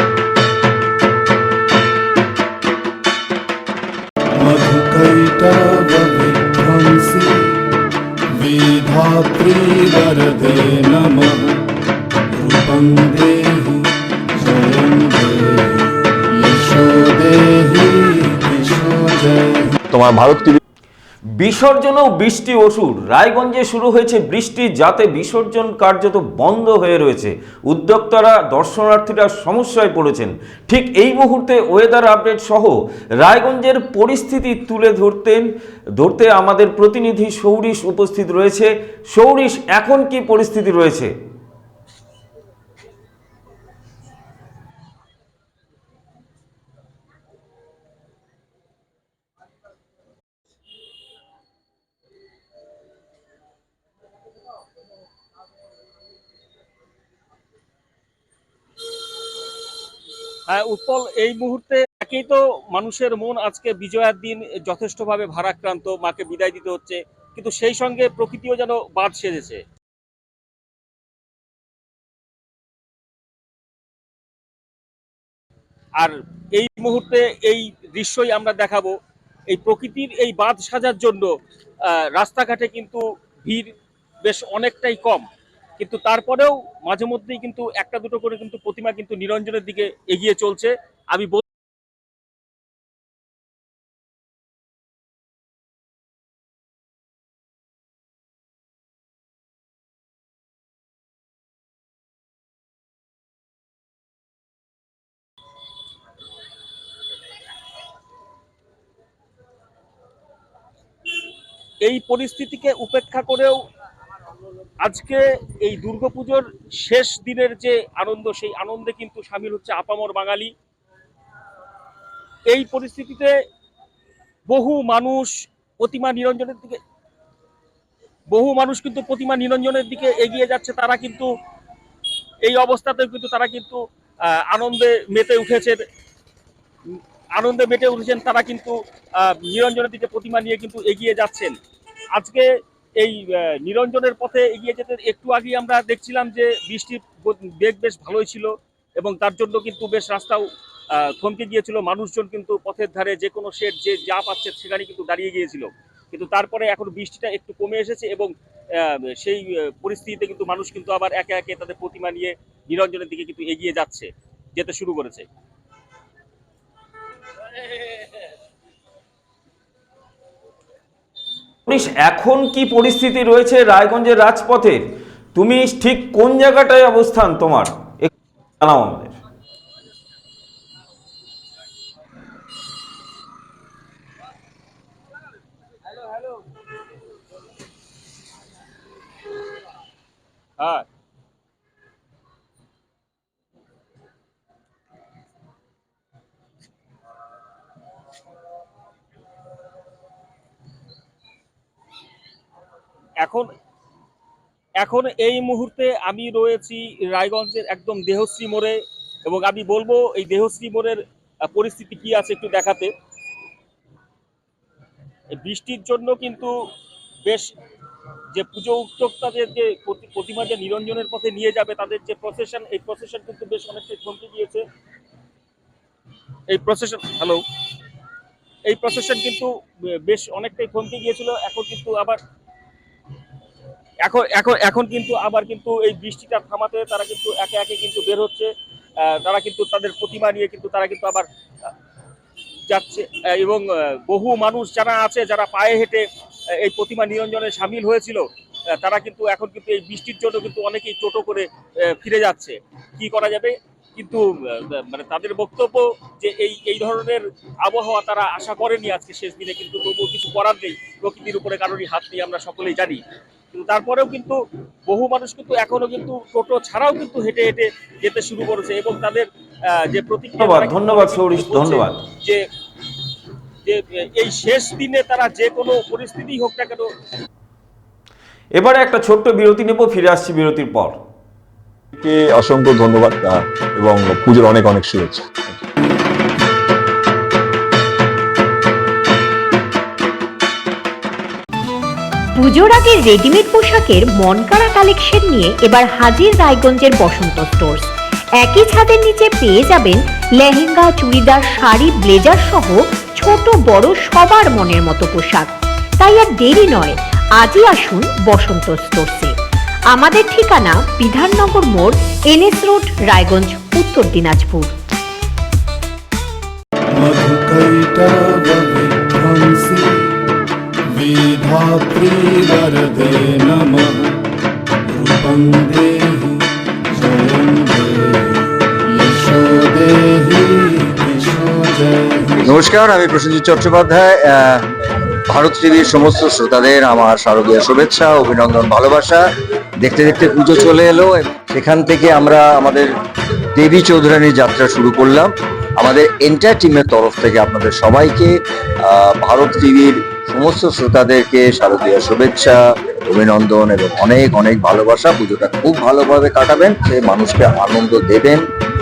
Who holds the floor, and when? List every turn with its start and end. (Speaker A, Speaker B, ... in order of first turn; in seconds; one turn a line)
Speaker A: 4.4-7.5
Speaker A: 8.3-11.7
Speaker A: 12.3-19.8
Speaker B: 19.9-20.6
Speaker C: 21.4-35.5
Speaker C: 36.0-41.1
Speaker D: 60.5-69.6
Speaker D: 76.0-79.0
Speaker D: 79.5-81.3
Speaker D: 82.1-83.7
Speaker D: 84.2-85.2
Speaker D: 85.8-91.4
Speaker D: 111.8-113.6
Speaker D: 114.8-120.5
Speaker D: 122.5-123.3
Speaker D: 124.5-126.8
Speaker D: 128.3-131.3
Speaker D: 132.4-133.8
Speaker D: 134.5-135.8
Speaker D: 136.9-141.6
Speaker D: 142.2-142.5
Speaker D: 143.0-150.4
Speaker D: 151.2-165.3
Speaker C: 171.7-174.8
Speaker C: 175.3-178.1
Speaker C: 178.6-179.2
Speaker D: 190.6-190.8
Speaker D: 203.2-203.5
Speaker D: 204.8-212.9
Speaker D: 215.4-216.5
Speaker D: 217.2-217.5
Speaker D: 218.3-224.6
Speaker D: 226.5-227.4
Speaker D: 228.7-229.5
Speaker D: 230.1-232.2
Speaker D: 234.0-238.5
Speaker D: 239.0-241.3
Speaker D: 242.7-246.1
Speaker D: 246.6-248.2
Speaker D: 248.8-269.3
Speaker D: 269.9-272.4
Speaker C: 270.4-272.0
Speaker D: 273.6-276.9
Speaker C: 278.6-281.0
Speaker B: 282.0-285.6
Speaker E: 292.4-309.4
Speaker E: 309.9-314.8
Speaker A: 316.9-320.1
Speaker A: 320.9-324.2
Speaker A: 324.9-332.4
Speaker F: 332.4-334.7
Speaker F: 335.3-339.2
Speaker F: 339.8-342.9
Speaker F: 343.6-358.4